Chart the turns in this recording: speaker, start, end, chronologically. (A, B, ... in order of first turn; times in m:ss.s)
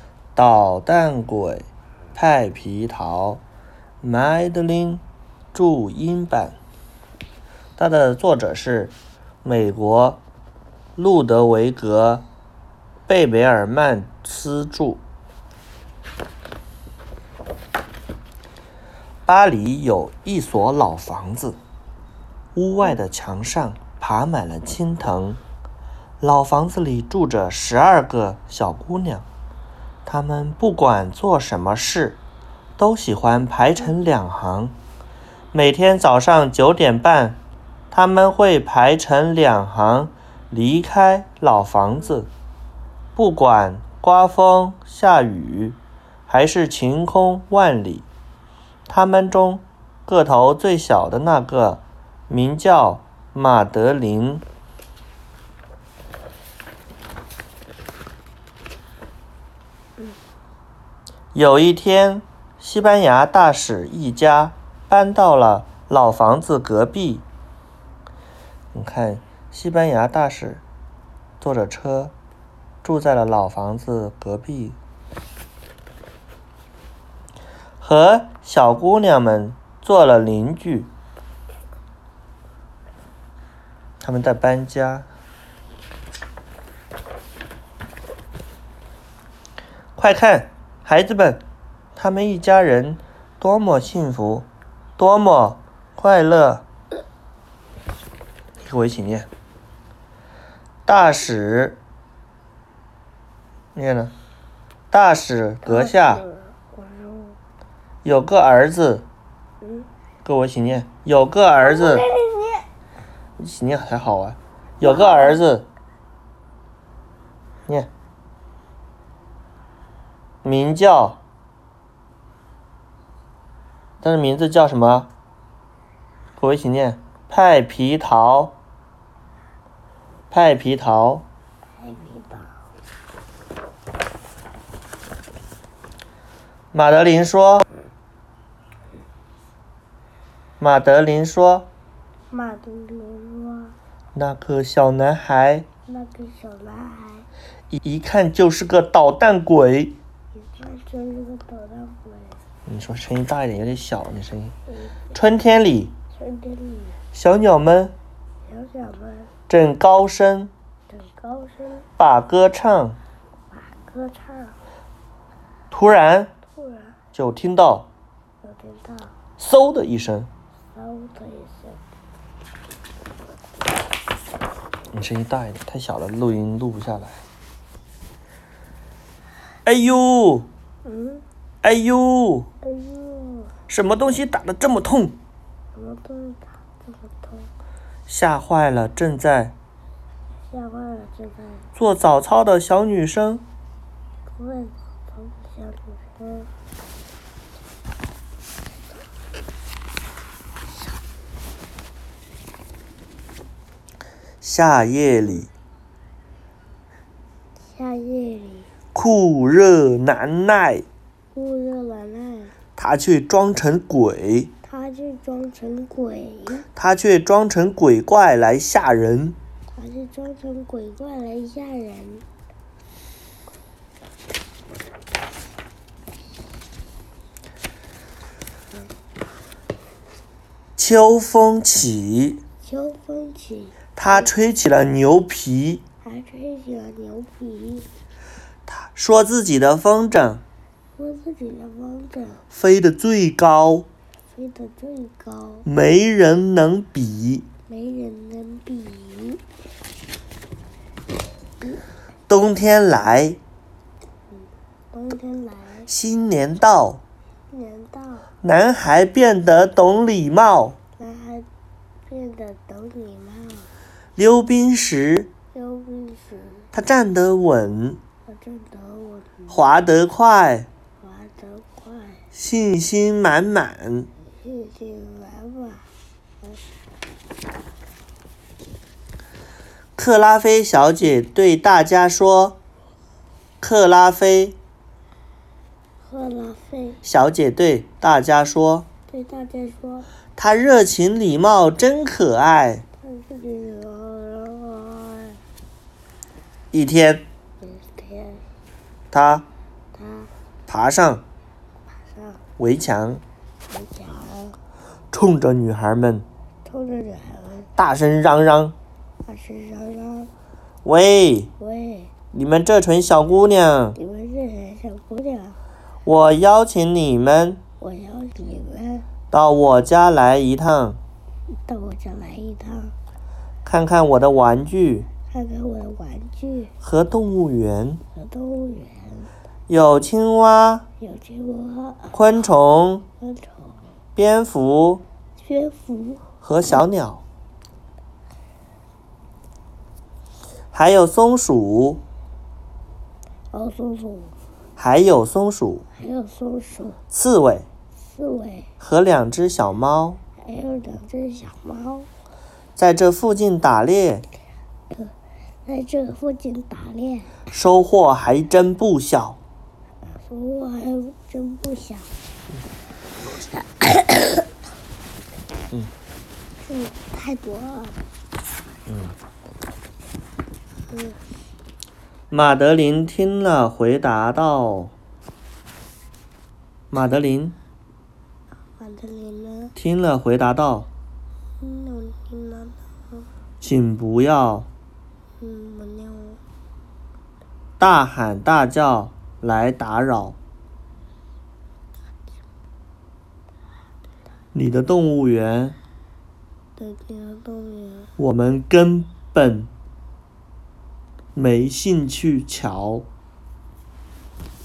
0:00.4-0:03.4 A
0:04.0-0:06.6 A
0:07.8-0:10.2 A
0:11.0-0:12.2 A
0:13.1-0:15.0 A
0:19.2-0:21.6 A
0:22.5-0:25.4 A
0:26.2-0:29.2 A
0:30.0-0:32.2 A
0:32.8-0:34.7 A
0:35.5-0:42.3 A
0:43.2-0:48.0 A
0:48.9-0:54.4 A
1:01.3-1:07.2 A
1:08.7-1:10.6 A
1:11.4-1:12.1 A
1:12.8-1:14.8 A
1:17.8-1:20.9 A
1:24.0-1:25.1 A
1:30.0-1:31.4 A
1:32.0-1:36.6 A
1:38.6-1:39.3 A
1:40.8-1:41.8 A
1:43.7-1:44.1 A
1:44.9-1:46.2 A
1:45.6-1:47.4 B
1:48.0-1:49.1 A
1:49.6-1:49.9 B
1:50.2-1:52.0 A
1:51.6-1:52.6 B
1:53.4-1:55.7 A
1:54.8-1:55.4 B
2:00.4-2:01.2 A
2:04.0-2:05.1 A
2:06.4-2:08.6 A
2:10.3-2:11.3 A
2:11.8-2:12.6 B
2:16.7-2:17.6 A
2:20.6-2:21.7 A
2:22.3-2:23.8 B
2:24.1-2:25.7 A
2:25.9-2:27.3 B
2:27.7-2:30.0 A
2:30.3-2:32.4 B
2:32.7-2:34.5 A
2:34.8-2:35.1 B
2:35.1-2:35.9 A
2:36.1-2:37.0 B
2:37.1-2:37.9 A
2:38.4-2:39.3 B
2:39.5-2:40.5 A
2:40.9-2:41.9 B
2:42.0-2:43.0 A
2:43.5-2:44.6 B
2:45.7-2:46.3 A
2:46.6-2:47.0 B
2:47.1-2:47.9 A
2:48.4-2:49.1 B
2:49.4-2:50.3 A
2:50.7-2:51.8 B
2:54.9-2:57.2 A
2:59.6-3:00.5 A
3:00.8-3:01.2 B
3:01.6-3:02.5 A
3:02.6-3:03.5 B
3:03.7-3:05.2 A
3:05.7-3:07.5 B
3:08.1-3:09.5 A
3:10.5-3:11.7 B
3:11.8-3:13.4 A
3:14.4-3:16.5 B
3:24.4-3:25.5 A
3:27.7-3:28.7 B
3:28.9-3:30.8 A
3:31.3-3:32.5 B
3:32.8-3:34.5 A
3:34.6-3:36.7 B
3:36.7-3:39.4 A
3:39.7-3:42.2 B
3:50.8-3:52.4 A
3:52.6-3:54.3 B
3:54.0-3:55.8 A
3:56.0-3:57.9 B
3:58.7-4:00.4 A
4:01.0-4:02.4 B
4:02.5-4:03.9 A
4:04.3-4:05.7 B
4:05.6-4:07.5 A
4:07.7-4:09.4 B
4:12.3-4:13.4 A
4:14.9-4:15.9 B
4:15.9-4:17.0 A
4:17.5-4:18.3 B
4:18.4-4:20.8 A
4:21.0-4:21.5 B
4:22.1-4:23.7 B
4:24.2-4:25.3 A
4:25.5-4:26.7 B
4:26.7-4:28.0 A
4:28.2-4:29.6 B
4:29.5-4:30.7 A
4:31.0-4:32.2 B
4:32.3-4:34.1 A
4:34.3-4:35.9 B
4:40.0-4:42.6 A
4:43.6-4:44.6 A
4:46.0-4:47.0 B
4:47.0-4:48.9 A
4:49.1-4:50.1 B
4:50.4-4:52.8 A
4:53.0-4:55.4 B
4:56.7-4:57.2 A
4:57.6-4:58.4 B
4:59.1-4:59.4 A
4:59.9-5:00.3 B
5:00.7-5:01.2 A
5:02.0-5:02.4 B
5:02.6-5:03.2 A
5:03.7-5:04.6 B
5:05.1-5:06.2 A
5:06.6-5:07.7 B
5:07.8-5:08.8 A
5:09.2-5:10.3 B
5:10.8-5:11.5 A
5:11.6-5:12.1 B
5:12.3-5:14.0 A
5:13.9-5:15.6 B
5:16.0-5:17.6 A
5:17.8-5:19.1 B
5:19.3-5:21.0 A
5:21.5-5:22.9 B
5:23.6-5:25.1 A
5:25.3-5:26.7 B
5:26.8-5:28.0 A
5:28.1-5:29.3 B
5:29.7-5:30.9 A
5:31.0-5:32.2 B
5:32.1-5:33.0 A
5:33.2-5:33.8 B
5:34.2-5:35.0 A
5:35.4-5:36.3 B
5:36.4-5:37.2 A
5:40.7-5:42.0 A
5:43.5-5:44.4 B
5:44.8-5:45.8 A
5:46.0-5:47.0 B
5:47.1-5:47.7 A
5:48.0-5:48.7 B
5:48.8-5:50.2 A
5:50.4-5:52.1 B
5:52.8-5:54.2 A
5:55.6-5:57.4 B
5:57.5-5:59.4 A
6:00.1-6:02.1 B
6:03.5-6:04.5 B
6:06.6-6:08.0 B
6:08.9-6:09.1 A
6:10.9-6:11.2 B
6:12.3-6:14.9 A
6:16.9-6:17.6 A
6:18.8-6:19.7 B
6:19.8-6:20.9 A
6:21.6-6:23.3 B
6:23.6-6:24.7 A
6:25.4-6:26.4 B
6:27.8-6:30.4 A
6:34.5-6:35.8 A
6:36.8-6:38.1 B
6:38.2-6:39.7 A
6:41.3-6:43.1 A